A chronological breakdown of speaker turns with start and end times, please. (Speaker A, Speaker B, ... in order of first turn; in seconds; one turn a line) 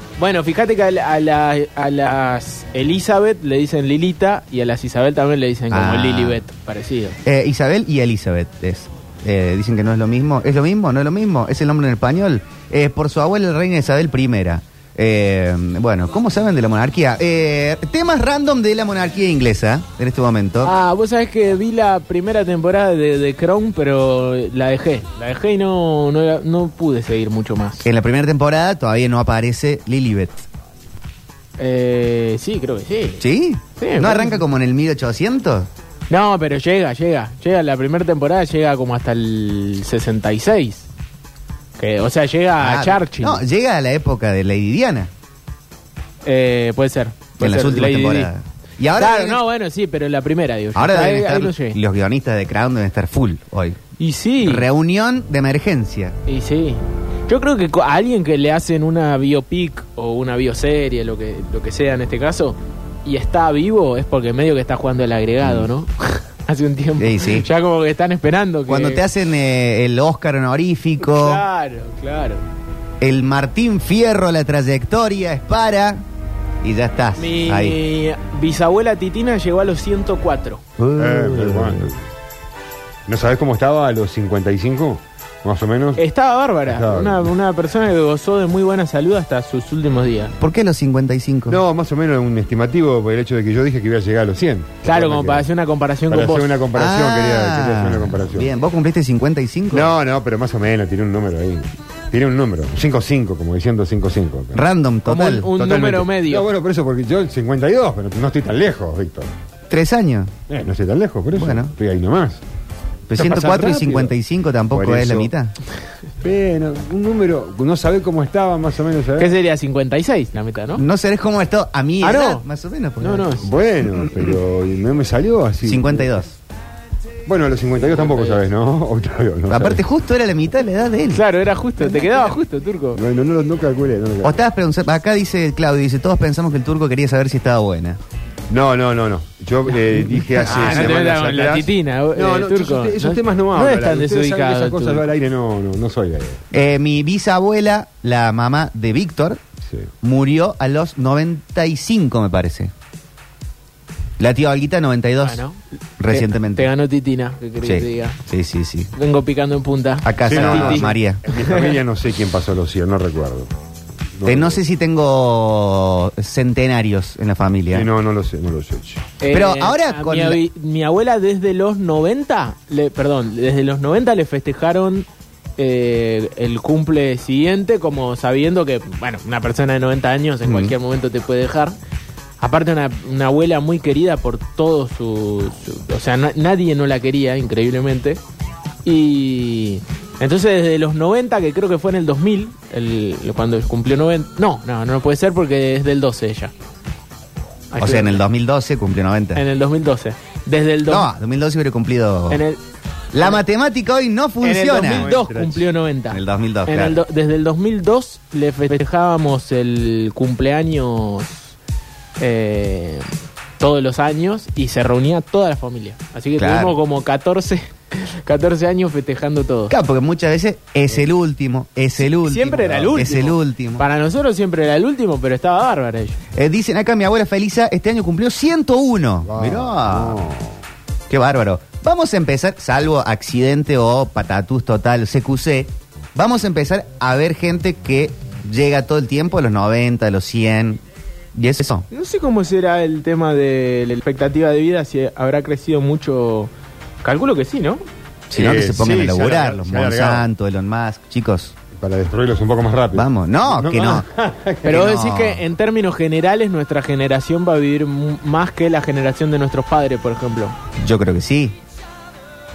Speaker A: 0.2-7.2
Speaker B: 5.7-6.4
Speaker B: 7.2-20.7
Speaker A: 20.6-27.9
Speaker B: 27.8-30.4
Speaker A: 31.6-33.2
Speaker B: 33.2-35.7
Speaker A: 33.8-34.4
Speaker A: 36.1-40.9
Speaker A: 41.8-43.4
Speaker B: 42.6-45.1
Speaker A: 46.2-48.3
Speaker B: 47.4-49.4
Speaker A: 49.0-51.8
Speaker B: 50.7-53.8
Speaker A: 54.0-54.7
Speaker B: 54.4-56.2
Speaker A: 56.3-69.0
Speaker B: 65.4-65.7
Speaker B: 67.0-67.5
Speaker B: 68.7-71.4
Speaker A: 71.0-72.4
Speaker B: 73.0-76.0
Speaker B: 76.6-77.8
Speaker A: 77.2-80.6
Speaker B: 80.8-81.9
Speaker C: 81.0-82.0
Speaker C: 83.1-86.0
Speaker A: 86.0-90.3
Speaker C: 86.7-87.3
Speaker B: 90.4-91.6
Speaker C: 91.5-95.5
Speaker A: 94.8-96.5
Speaker C: 96.1-98.5
Speaker B: 96.7-99.9
Speaker C: 99.7-104.7
Speaker B: 104.5-105.5
Speaker A: 105.0-106.5
Speaker C: 105.5-109.3
Speaker B: 109.7-110.3
Speaker C: 110.5-112.4
Speaker B: 111.3-111.7
Speaker B: 113.1-115.5
Speaker C: 113.2-114.1
Speaker C: 114.7-115.3
Speaker C: 116.2-119.3
Speaker A: 119.2-120.8
Speaker B: 120.8-123.3
Speaker A: 122.0-122.4
Speaker A: 123.0-123.5
Speaker C: 123.4-126.1
Speaker B: 125.7-126.3
Speaker C: 127.3-129.8
Speaker A: 127.9-128.4
Speaker B: 129.5-131.2
Speaker A: 131.1-133.0
Speaker C: 132.9-134.4
Speaker B: 134.2-138.0
Speaker C: 138.5-146.4
Speaker B: 140.3-141.0
Speaker A: 140.4-145.0
Speaker B: 146.5-149.4
Speaker B: 150.0-152.7
Speaker B: 154.2-155.4
Speaker A: 155.2-158.2
Speaker B: 156.0-156.7
Speaker B: 157.6-158.9
Speaker A: 158.9-161.7
Speaker B: 160.0-161.2
Speaker C: 160.3-163.5
Speaker C: 164.2-164.6
Speaker B: 164.2-167.9
Speaker C: 167.7-169.0
Speaker A: 169.2-175.1
Speaker B: 169.3-170.4
Speaker A: 175.6-181.7
Speaker B: 180.4-180.7
Speaker A: 182.4-188.2
Speaker A: 188.8-196.5
Speaker A: 197.7-198.2
Speaker B: 197.8-199.4
Speaker A: 199.3-201.1
Speaker B: 200.8-202.4
Speaker A: 202.3-202.6
Speaker B: 203.1-205.1
Speaker A: 204.4-211.5
Speaker C: 204.8-205.7
Speaker B: 206.1-207.0
Speaker A: 212.2-213.1
Speaker A: 213.6-219.7
Speaker B: 216.4-216.8
Speaker B: 219.7-223.8
Speaker A: 222.0-226.2
Speaker B: 226.3-230.2
Speaker C: 229.2-230.6
Speaker B: 231.1-240.8
Speaker B: 241.3-241.8
Speaker A: 241.9-246.5
Speaker A: 247.0-247.8
Speaker B: 248.3-251.5
Speaker C: 248.3-250.3
Speaker C: 251.8-254.8
Speaker B: 252.9-254.1
Speaker B: 254.7-255.4
Speaker A: 254.7-260.5
Speaker B: 260.8-261.6